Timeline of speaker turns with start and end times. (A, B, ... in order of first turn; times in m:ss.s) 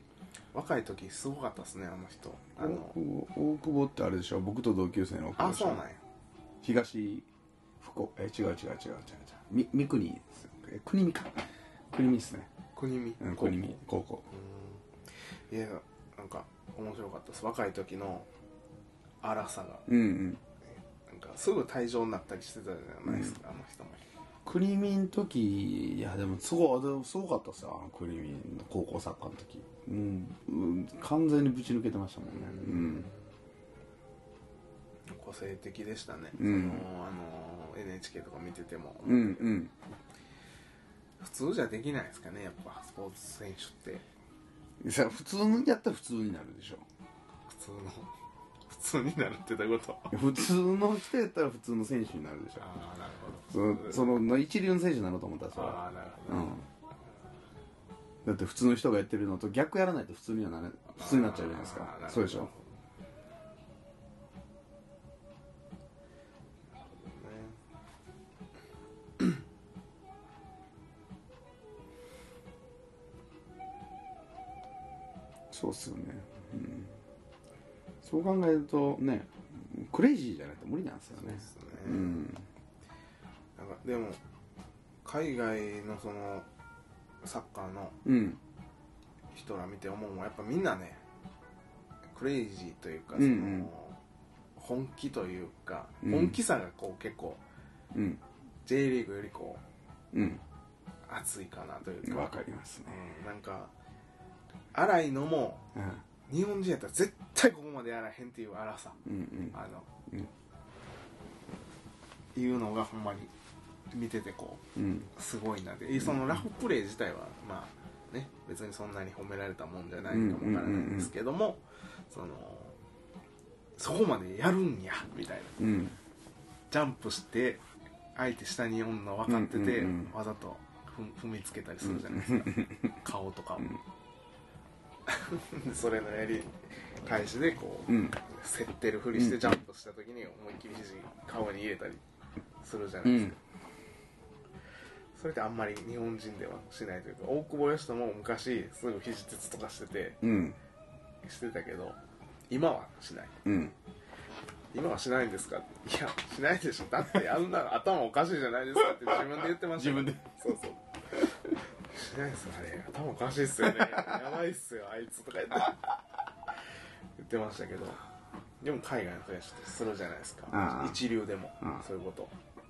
0:00.5-0:03.0 A
0:02.6-0:05.8 B
0:05.4-0:06.0 A
0:06.6-0:07.3 B
0:07.8-0:12.5 B
0:12.7-0:13.8 A
0:13.2-0:14.2 B
0:14.3-0:14.8 A
0:15.5-0:18.3 A
0:19.2-0:19.8 A
0:19.9-0:20.4 B
0:20.9-0:24.0 A
0:23.0-0:23.4 B
0:24.4-0:33.1 B
0:32.2-0:33.3 A
0:35.1-0:39.6 A
0:36.4-0:36.8 B
0:39.0-0:39.7 B
0:41.2-0:44.0 A
0:44.8-0:46.8 B
0:47.5-0:48.1 A
0:48.7-0:50.2 A
0:50.1-0:52.7 B
0:52.6-0:54.1 A
0:53.5-0:56.6 B
0:55.5-0:56.6 A
0:58.2-1:02.5 B
1:01.0-1:02.7 A
1:06.8-1:07.6 A
1:15.5-1:17.0 B
1:18.0-1:22.4 B
1:21.1-1:22.3 A
1:23.6-1:24.2 A
1:25.0-1:26.5 A
1:27.2-1:28.0 A
1:28.0-1:28.4 B
1:29.3-1:31.0 A
1:32.1-1:34.0 A
1:33.1-1:33.7 B
1:34.6-1:37.4 A
1:36.0-1:36.4 B
1:37.9-1:38.2 B
1:38.6-1:39.6 A
1:40.1-1:40.4 B
1:41.1-1:43.7 A
1:42.0-1:43.0 B
1:44.7-1:45.6 A
1:45.7-1:46.0 B
1:46.3-1:49.0 A
1:49.0-1:49.6 B
1:49.5-1:49.9 A
1:52.3-1:53.3 A
1:53.9-1:54.6 A
1:54.8-1:55.1 B
1:55.1-2:02.8 A
2:00.1-2:01.1 B
2:03.8-2:05.6 A
2:05.6-2:06.0 B
2:06.7-2:07.6 A
2:08.1-2:13.7 A
2:09.3-2:10.1 B
2:11.8-2:12.9 B
2:15.1-2:16.5 A
2:17.0-2:22.0 A
2:17.9-2:18.2 B
2:19.1-2:19.6 B
2:22.6-2:23.4 A
2:23.0-2:23.4 B
2:25.1-2:30.2 A
2:30.2-2:30.6 B
2:31.2-2:32.0 A
2:32.5-2:33.3 A
2:33.4-2:33.7 B
2:34.7-2:40.8 A
2:39.8-2:40.3 B
2:41.9-2:45.9 A
2:47.2-2:48.0 A
2:48.6-2:52.3 A
2:50.5-2:51.0 B